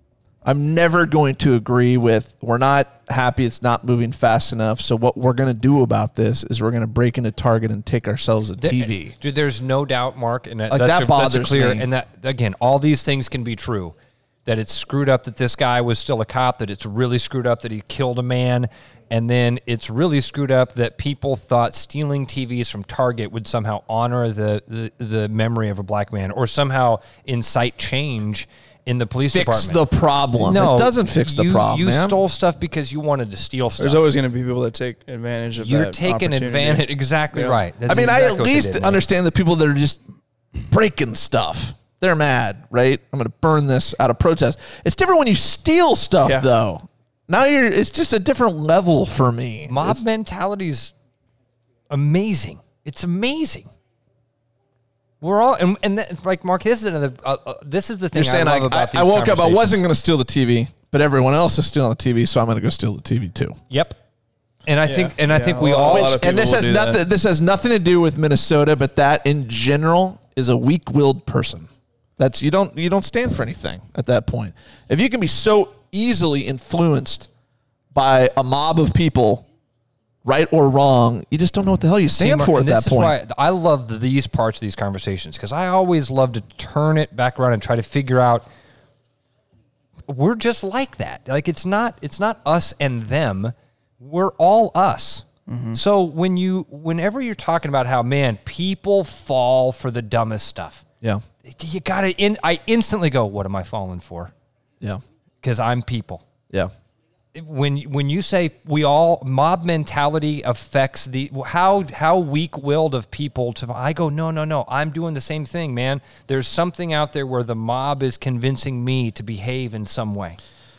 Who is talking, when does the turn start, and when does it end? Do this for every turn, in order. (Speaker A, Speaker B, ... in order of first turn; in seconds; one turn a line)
Speaker A: 0.4-9.1
Speaker B: 8.6-29.8
Speaker A: 10.7-11.9
Speaker A: 29.3-32.2
Speaker B: 30.4-34.0
Speaker C: 33.8-37.6
Speaker B: 35.6-39.0
Speaker A: 37.9-40.0
Speaker A: 40.7-50.0
Speaker B: 49.7-50.9
Speaker B: 51.9-53.7
Speaker B: 55.2-59.8
Speaker A: 58.1-63.6
Speaker B: 63.7-64.0
Speaker B: 64.7-66.2
Speaker C: 64.8-67.0
Speaker A: 65.9-77.3
Speaker A: 77.9-79.4
Speaker A: 80.2-83.1
Speaker B: 82.2-88.5
Speaker B: 90.1-100.8
Speaker C: 95.5-95.8
Speaker B: 101.4-104.3
Speaker B: 105.4-106.2
Speaker B: 107.3-120.4